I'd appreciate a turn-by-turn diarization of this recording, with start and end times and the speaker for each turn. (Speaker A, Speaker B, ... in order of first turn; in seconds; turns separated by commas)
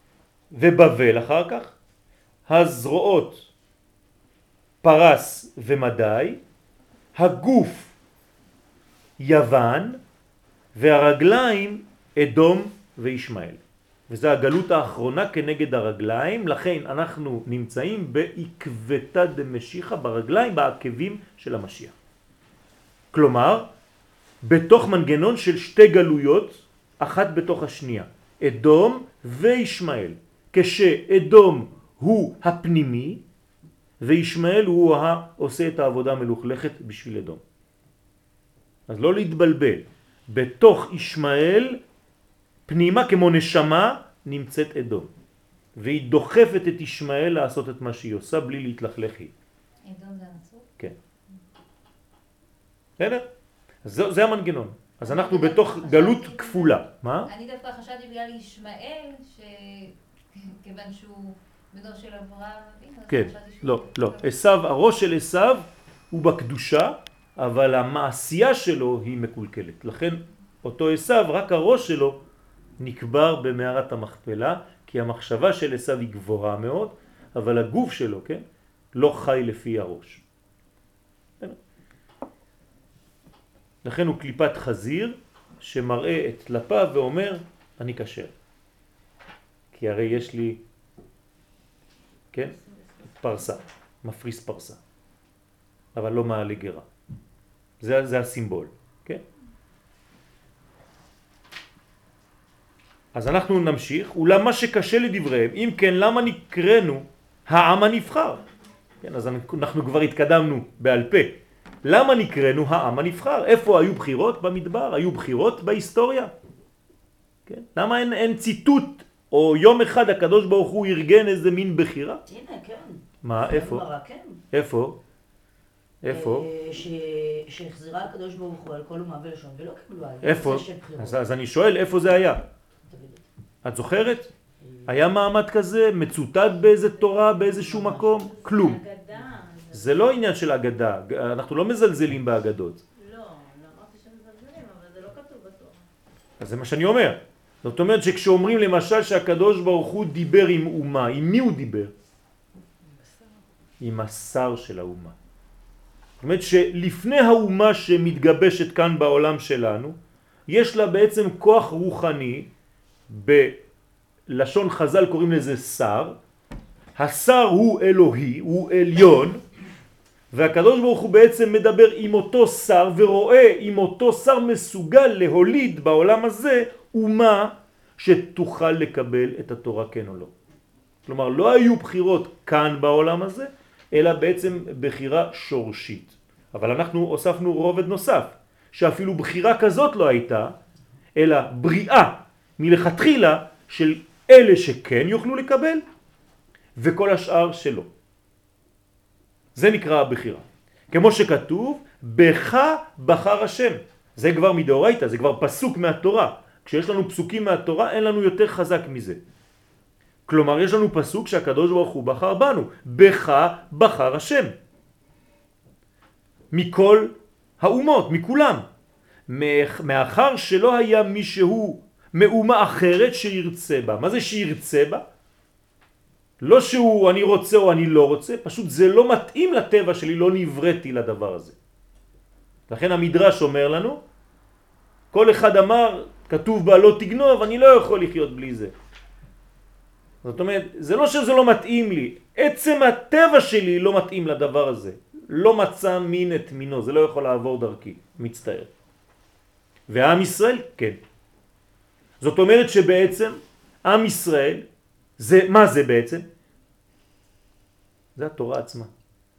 Speaker A: 0.5-1.8, Speaker A: 2.5-3.5, Speaker A: 4.8-6.4, Speaker A: 7.1-7.9, Speaker A: 9.2-10.0, Speaker A: 10.7-21.9, Speaker A: 23.1-23.7, Speaker A: 24.4-33.2, Speaker A: 34.0-37.4, Speaker A: 38.9-41.8, Speaker A: 42.7-45.1, Speaker A: 45.8-49.3, Speaker B: 49.8-50.7, Speaker A: 53.0-53.2, Speaker A: 53.8-57.3, Speaker B: 55.0-64.2, Speaker A: 63.1-72.2, Speaker A: 72.8-80.2, Speaker A: 83.8-88.3, Speaker A: 89.7-90.6, Speaker A: 92.3-94.8, Speaker A: 95.9-96.8, Speaker A: 97.8-99.2, Speaker A: 103.1-108.4, Speaker A: 109.0-116.3, Speaker A: 117.5-122.2, Speaker C: 122.2-124.4, Speaker A: 123.2-123.9, Speaker A: 124.5-125.0, Speaker A: 126.0-126.5, Speaker C: 126.1-131.2, Speaker A: 130.2-132.4, Speaker C: 132.8-133.2, Speaker A: 133.6-134.3, Speaker C: 134.6-134.9, Speaker A: 134.8-138.8, Speaker C: 137.1-138.6, Speaker D: 138.3-140.1, Speaker A: 139.7-142.8, Speaker D: 142.9-145.9, Speaker A: 146.4-151.9, Speaker D: 152.8-153.4, Speaker A: 153.8-155.1, Speaker A: 156.2-160.0, Speaker A: 160.5-162.5, Speaker A: 163.1-163.6, Speaker A: 164.3-166.2, Speaker A: 166.9-169.4, Speaker A: 170.3-180.3, Speaker A: 181.1-190.6, Speaker A: 191.2-195.8, Speaker A: 196.8-197.9, Speaker A: 199.5-209.2, Speaker A: 210.3-214.5, Speaker A: 216.5-218.7, Speaker A: 219.3-225.0, Speaker A: 226.4-231.6, Speaker A: 232.7-234.0, Speaker A: 235.1-238.7, Speaker A: 240.2-248.7, Speaker A: 249.9-251.0, Speaker A: 252.2-254.6, Speaker A: 255.2-256.3, Speaker A: 258.1-258.9